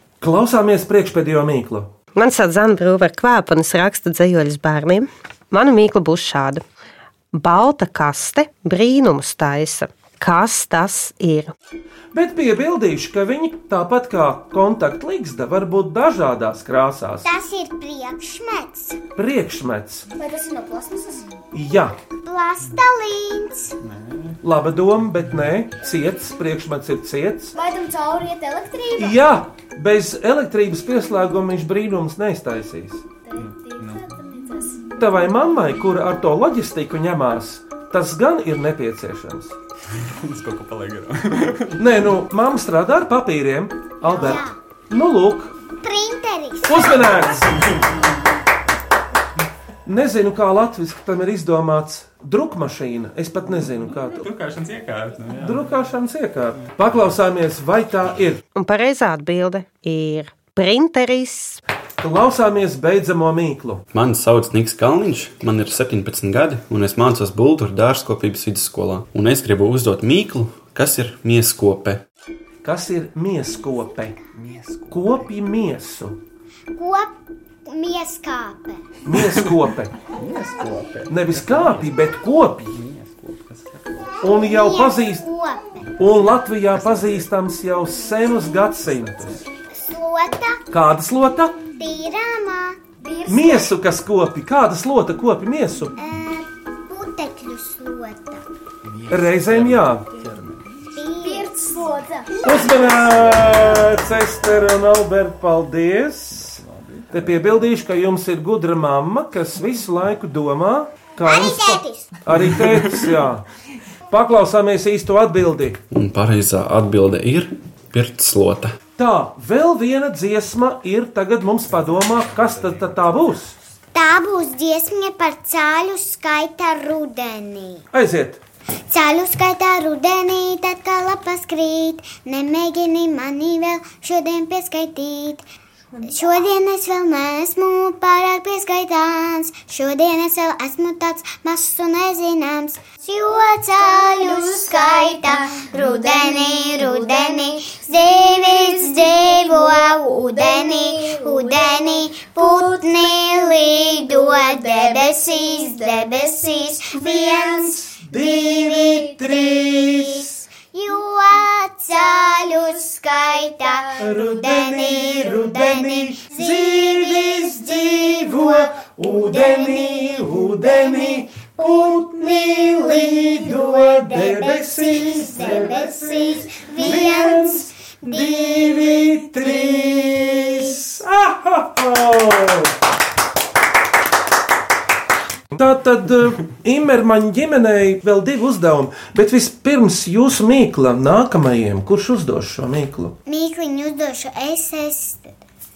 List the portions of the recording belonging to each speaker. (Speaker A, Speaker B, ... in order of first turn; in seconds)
Speaker A: 0.2-1.9, 12.1-17.3, 19.2-20.1, 21.5-21.9, 24.4-27.5, 28.9-33.0, 35.0-39.5, 41.8-45.5, 46.6-47.6, 49.9-54.3, 55.4-58.4, 62.0-63.8, 72.6-74.2, 74.9-76.2, 79.0-79.9, 81.1-82.8, 84.2-85.2, 86.0-89.4, 90.7-91.6, 93.3-96.0, 99.1-100.1, 102.4-113.4, 114.1-115.8, 119.0-123.5, 127.9-128.4, 156.9-160.3, 164.0-182.7, 185.5-193.1
Speaker B: 2.1-6.6, 7.3-11.5, 58.5-61.6
Speaker C: 17.2-19.0, 22.2-23.7, 44.0-44.5, 45.8-47.3, 76.7-78.9, 84.1-86.0, 89.7-90.6, 91.7-92.8, 96.0-98.4, 100.9-101.6, 102.4-103.1, 111.2-112.2, 123.9-127.8, 128.9-135.4, 136.1-179.9, 193.2-195.4
Speaker D: 20.2-21.3, 27.5-29.2, 33.2-34.9, 93.0-93.7, 101.2-102.4, 143.9-147.2, 149.1-149.5, 150.3-151.6
Speaker E: 23.8-24.4, 33.4-34.0, 40.0-41.8, 54.1-55.7, 74.4-75.0, 80.2-81.9, 82.8-84.0, 98.9-100.7, 103.2-103.6, 106.4-107.2, 121.8-123.0
Speaker F: 63.9-72.0, 115.9-118.7